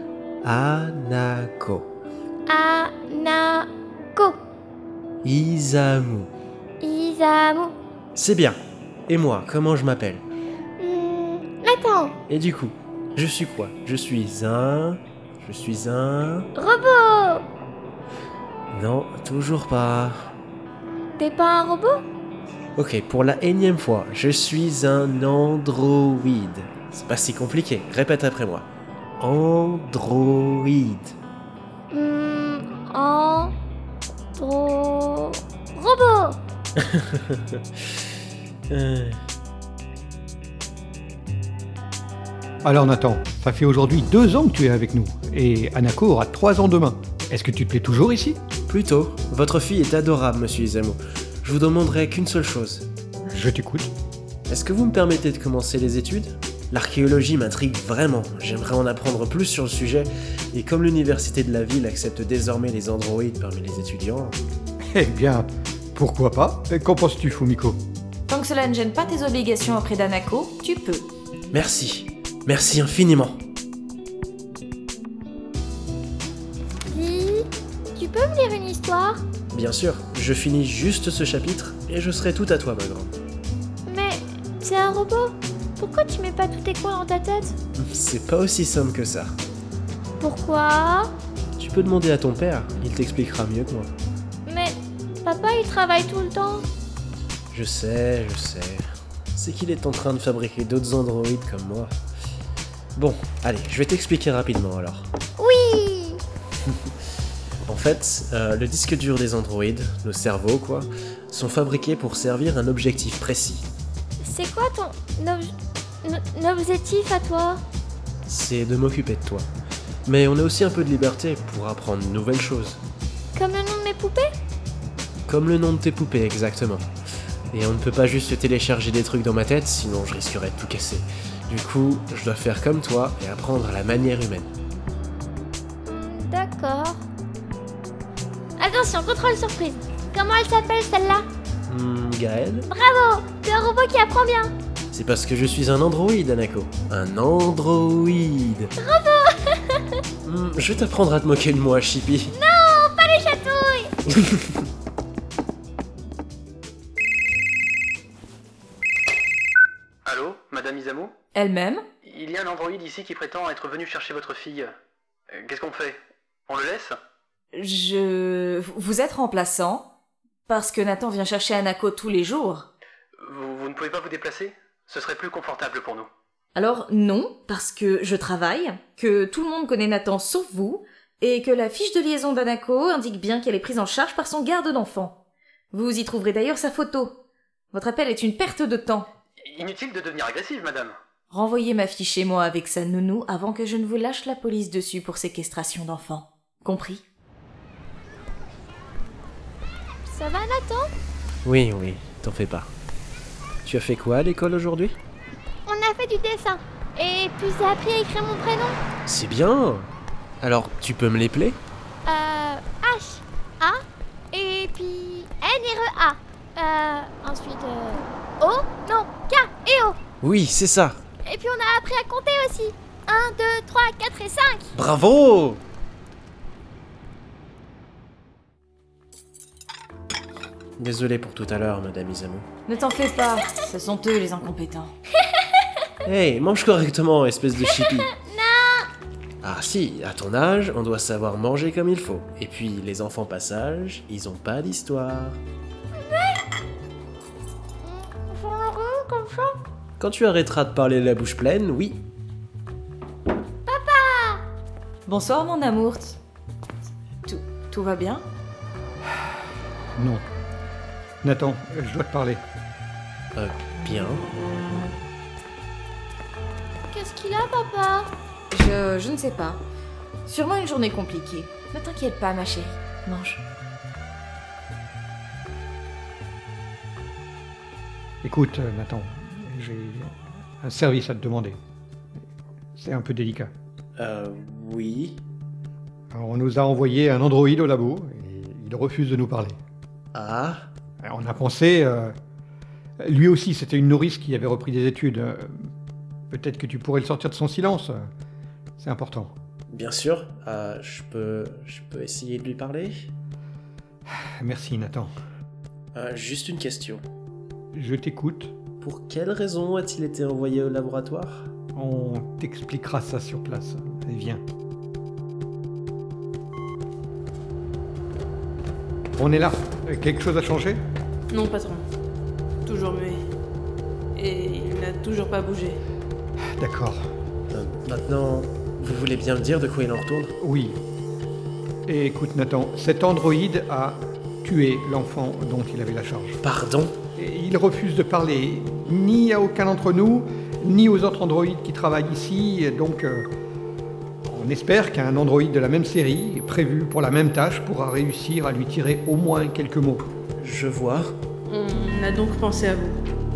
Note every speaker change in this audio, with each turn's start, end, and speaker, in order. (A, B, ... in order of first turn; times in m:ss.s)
0:00.4-0:01.9 A
0:02.5-0:04.4 B
0:05.2-0:06.3 A
0:06.8-0:07.8 B
0:08.2-0:10.2 A
0:10.8-0:12.2 B
0:12.3-0:16.5 A
0:16.6-0:17.4 B
0:18.7-0:20.3 A
0:21.2-0:22.0 B
0:22.8-0:28.7 A
0:29.2-0:31.2 A
0:31.9-0:33.5 B
0:34.4-0:36.4 B
0:36.8-0:37.6 A
0:38.7-0:39.2 A
0:42.6-0:48.4 C
0:48.7-0:52.9 A
0:53.3-0:53.9 C
0:54.5-1:04.4 A
1:04.9-1:07.8 C
1:08.3-1:11.1 D
1:11.5-1:13.4 A
1:16.9-1:19.2 B
1:19.5-1:23.1 A
1:23.9-1:27.6 B
1:27.8-1:29.4 A
1:30.2-1:31.1 B
1:31.6-1:33.9 A
1:34.5-1:36.7 B
1:37.5-1:41.9 A
1:43.0-1:45.1 A
1:45.4-1:46.2 B
1:46.7-1:46.9 A
1:47.7-1:53.7 A
1:54.2-1:55.5 B
1:56.0-1:57.6 B
1:58.3-1:59.5 A
2:00.1-2:02.8 A
2:03.4-2:04.3 B
2:05.3-2:06.9 A
2:07.5-2:14.5 A
2:15.9-2:17.1 B
2:18.6-2:21.3 B
2:21.7-2:22.7 A
2:22.7-2:24.5 B
2:24.9-2:28.7 A
2:28.8-2:30.0 B
2:30.2-2:32.4 A
2:32.3-2:33.9 B
2:34.1-2:34.6 A
2:40.1-2:41.1 E
2:41.4-2:41.8 D
2:42.0-2:44.7 E
2:45.4-2:46.0 E
2:46.5-2:47.0 E
2:47.6-2:49.8 D
2:50.5-2:52.7 D
2:53.2-2:56.1 E
2:56.6-3:05.1 D
3:05.7-3:07.1 D
3:07.7-3:09.1 D
3:09.5-3:11.0 E
3:11.3-3:17.0 D
3:20.1-3:20.9 B
3:21.4-3:22.7 A
3:23.6-3:25.0 A
3:25.7-3:28.8 B
3:29.1-3:29.9 A
3:30.4-3:31.6 A
3:32.0-3:40.0 B
3:40.2-3:41.0 A
3:41.2-3:44.7 B
3:44.7-3:45.6 A
3:50.8-3:52.5 A
3:52.7-3:54.9 D
3:56.0-3:58.1 A
3:57.7-3:58.9 B
3:59.4-4:05.4 A
4:05.9-4:06.4 B
4:07.8-4:09.6 B
4:10.0-4:12.0 A
4:13.7-4:14.4 B
4:15.1-4:16.2 D
4:17.3-4:18.2 D
4:20.0-4:20.2 C
4:21.2-4:22.4 C
4:23.4-4:24.2 A
4:26.9-4:28.1 B
4:28.5-4:29.6 D
4:30.3-4:33.4 D
4:38.2-4:41.6 C
4:42.8-4:43.5 C
4:44.0-4:45.2 A
4:46.1-4:49.6 C
4:50.1-4:50.7 A
4:51.0-4:52.1 C
4:53.0-4:55.7 C
4:56.3-4:58.0 C
4:58.8-4:59.3 C
4:59.7-5:03.1 A
5:04.4-5:05.1 C
5:05.9-5:07.0 A
5:07.8-5:08.5 C
5:08.8-5:11.5 A
5:11.8-5:14.4 C
5:19.2-5:20.8 C
5:21.3-5:21.8 F
5:22.6-5:23.2 F
5:24.2-5:25.8 F
5:26.6-5:27.0 C
5:27.5-5:30.4 A
5:30.4-5:30.8 C
5:31.9-5:36.4 C
5:36.4-5:37.0 A
5:37.2-5:43.3 C
5:44.3-5:50.0 C
5:50.4-5:51.2 A
5:51.5-5:53.0 F